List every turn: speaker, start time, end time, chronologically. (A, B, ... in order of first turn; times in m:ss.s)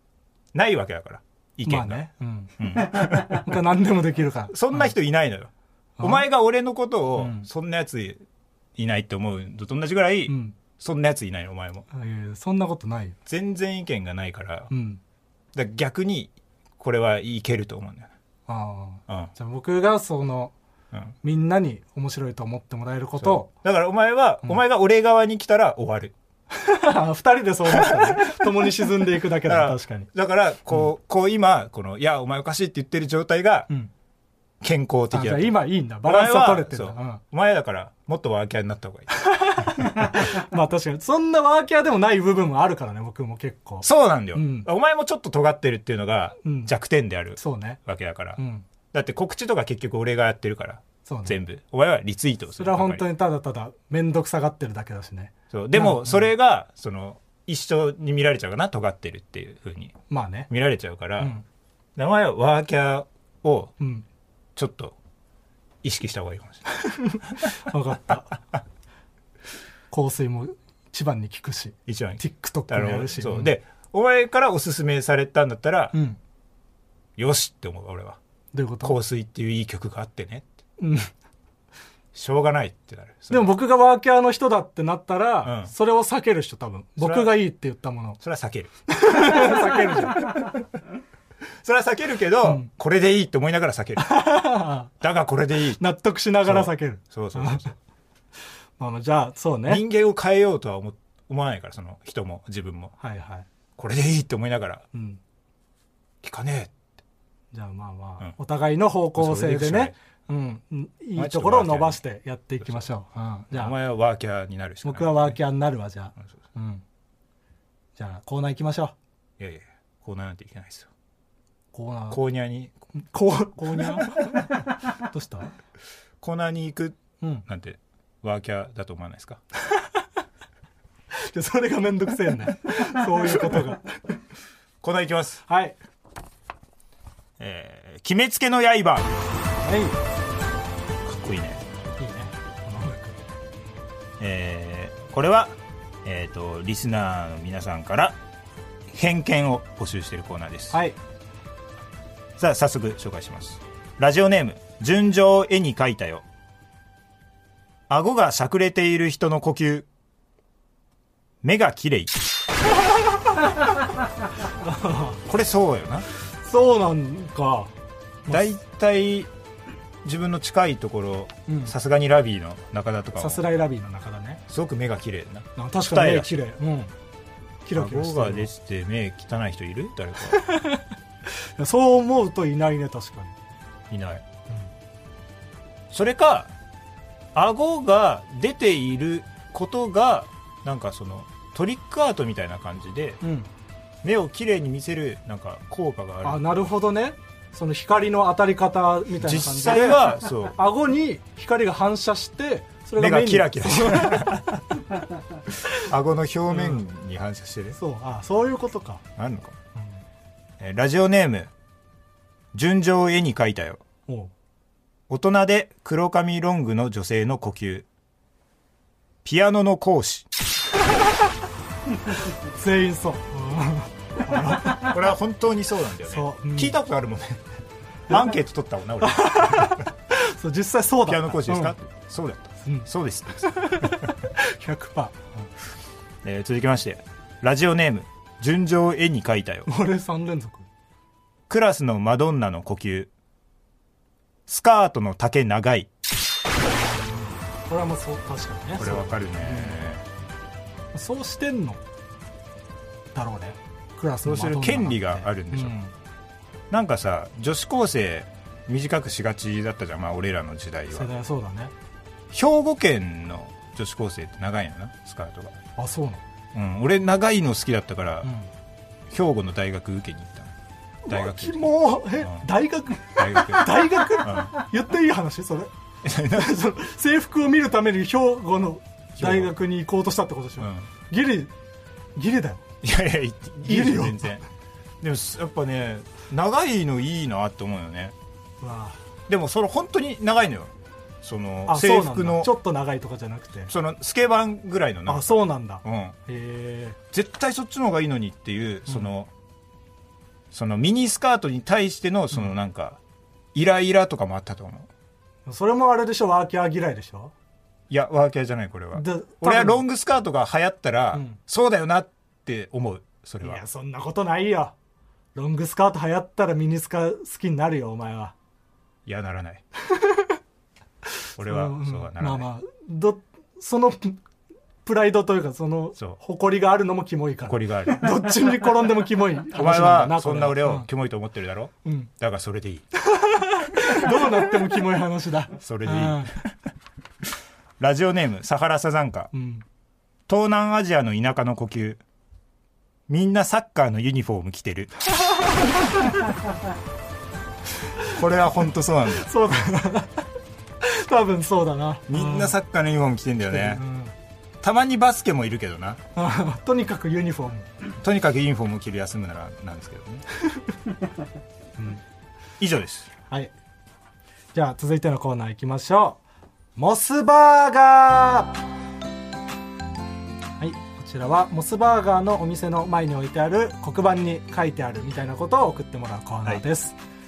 0:00.5-0:02.0 A
0:01.6-0:04.9 B
0:02.6-0:03.6 A
0:04.5-0:08.2 A
0:06.0-0:06.3 B
0:07.2-0:07.5 B
0:08.8-0:11.9 A
0:10.3-0:10.6 B
0:11.9-0:13.2 B
0:13.3-0:14.7 A
0:14.7-0:15.0 B
0:15.5-0:18.1 A
0:18.5-0:20.5 B
0:21.2-0:23.5 B
0:23.2-0:26.1 A
0:26.5-0:30.1 B
0:27.7-0:33.7 A
0:34.6-0:39.1 A
0:35.1-0:37.2 B
0:39.1-0:44.7 B
0:43.8-0:48.4 A
0:46.4-0:46.7 B
0:47.4-0:47.8 B
0:48.4-0:48.6 B
0:48.9-0:53.0 A
0:51.0-0:51.4 B
0:52.6-0:56.3 B
0:55.5-1:01.3 A
1:00.1-1:00.5 B
1:01.2-1:01.4 B
1:02.0-1:03.7 A
1:03.8-1:04.0 B
1:04.6-1:05.0 A
1:05.8-1:06.6 A
1:06.8-1:08.4 B
1:09.9-1:13.5 B
1:11.9-1:15.9 A
1:15.9-1:16.2 B
1:17.2-1:18.2 A
1:18.5-1:19.0 B
1:18.8-1:20.5 A
1:20.8-1:21.1 B
1:22.1-1:23.5 A
1:23.3-1:28.2 B
1:25.4-1:25.7 A
1:27.0-1:27.3 A
1:28.2-1:30.6 A
1:28.9-1:30.3 B
1:31.6-1:34.2 A
1:34.0-1:34.9 B
1:35.0-1:35.8 A
1:35.8-1:37.7 B
1:36.4-1:37.7 A
1:38.8-1:39.8 B
1:39.7-1:42.9 A
1:43.0-1:43.4 B
1:43.8-1:44.8 A
1:44.9-1:45.2 B
1:46.2-1:46.7 A
1:47.5-1:53.7 B
1:49.1-1:49.9 A
1:51.2-1:52.0 A
1:52.6-1:52.9 A
1:53.5-1:55.4 A
1:54.8-1:56.8 B
1:58.0-1:58.9 B
1:59.4-2:00.9 A
2:01.7-2:02.2 B
2:02.1-2:02.7 A
2:03.0-2:05.5 B
2:04.0-2:04.4 A
2:06.2-2:09.4 A
2:07.2-2:07.4 B
2:11.1-2:13.9 B
2:14.8-2:15.4 A
2:15.5-2:15.8 B
2:17.4-2:19.2 A
2:19.6-2:20.0 B
2:21.0-2:21.6 A
2:22.0-2:23.2 B
2:24.2-2:28.2 A
2:28.9-2:30.8 A
2:30.7-2:31.0 B
2:32.4-2:36.2 A
2:37.9-2:39.9 A
2:41.4-2:42.2 A
2:44.6-2:45.2 B
2:45.2-2:46.0 A
2:46.4-2:47.7 B
2:48.3-2:49.3 A
2:50.0-2:53.4 A
2:51.5-2:51.7 B
2:53.2-2:54.4 B
2:54.5-2:56.3 A
2:55.6-2:56.9 B
2:57.6-2:58.5 B
2:57.8-3:00.4 A
3:00.3-3:03.3 B
3:03.9-3:04.2 A
3:05.9-3:06.5 A
3:07.3-3:13.2 A
3:13.2-3:13.5 B
3:14.0-3:16.7 A
3:16.2-3:24.4 B
3:19.2-3:20.6 A
3:23.0-3:24.8 A
3:25.7-3:27.8 A
3:26.5-3:26.8 B
3:27.8-3:29.0 B
3:29.2-3:29.6 A
3:30.6-3:31.5 A
3:32.5-3:33.8 A
3:34.1-3:34.3 B
3:35.1-3:37.8 A
3:39.2-3:40.3 A
3:42.5-3:44.9 B
3:44.6-3:47.5 A
3:46.0-3:46.8 B
3:48.1-3:49.9 A
3:49.0-3:51.8 B
3:51.0-3:54.1 A
3:53.4-3:55.3 B
3:56.2-3:59.7 A
3:59.6-4:00.7 B
4:01.5-4:03.1 A
4:04.5-4:05.9 A
4:06.6-4:09.8 B
4:08.8-4:10.0 A
4:10.9-4:11.8 B
4:13.1-4:15.9 B
4:14.2-4:15.8 A
4:16.7-4:21.1 A
4:20.9-4:21.7 B
4:22.3-4:25.6 A
4:25.8-4:26.2 B
4:26.5-4:28.3 A
4:28.2-4:28.5 B
4:29.1-4:30.5 A
4:31.0-4:35.7 B
4:31.1-4:32.5 A
4:33.1-4:34.6 A
4:36.0-4:36.6 A
4:36.3-4:41.5 B
4:39.2-4:39.6 A
4:40.6-4:40.9 A
4:42.1-4:42.6 B
4:42.8-4:44.4 A
4:43.6-4:44.2 B
4:45.0-4:48.1 A
4:48.6-4:49.0 B
4:49.3-4:52.5 A
4:51.7-4:53.7 B
4:53.7-4:56.2 A
4:55.1-4:57.0 B
4:57.1-4:59.3 A
5:00.5-5:03.0 A
5:03.5-5:04.9 A
5:05.4-5:07.3 B
5:07.9-5:13.6 A
5:08.9-5:09.8 B
5:11.1-5:11.4 B
5:13.4-5:14.7 B
5:15.3-5:18.3 B
5:19.0-5:19.6 A
5:19.9-5:20.3 B
5:21.4-5:22.5 A
5:21.4-5:24.2 B
5:24.8-5:30.9 B
5:27.5-5:28.2 A
5:29.5-5:32.8 A
5:31.8-5:32.1 B
5:33.1-5:36.3 B
5:35.6-5:36.5 A
5:37.8-5:39.3 A
5:39.3-5:39.6 B
5:40.3-5:42.0 A
5:43.1-5:44.9 A
5:48.1-5:49.7 A
5:49.2-5:50.2 B
5:50.8-5:52.5 B
5:52.1-5:53.8 A
5:53.5-5:54.1 B
5:54.6-5:56.0 A
5:56.2-5:57.7 B
5:58.0-6:00.2 A
6:01.8-6:02.0 B
6:02.6-6:03.1 A
6:04.5-6:06.2 B
6:06.8-6:08.6 B
6:10.6-6:17.0 B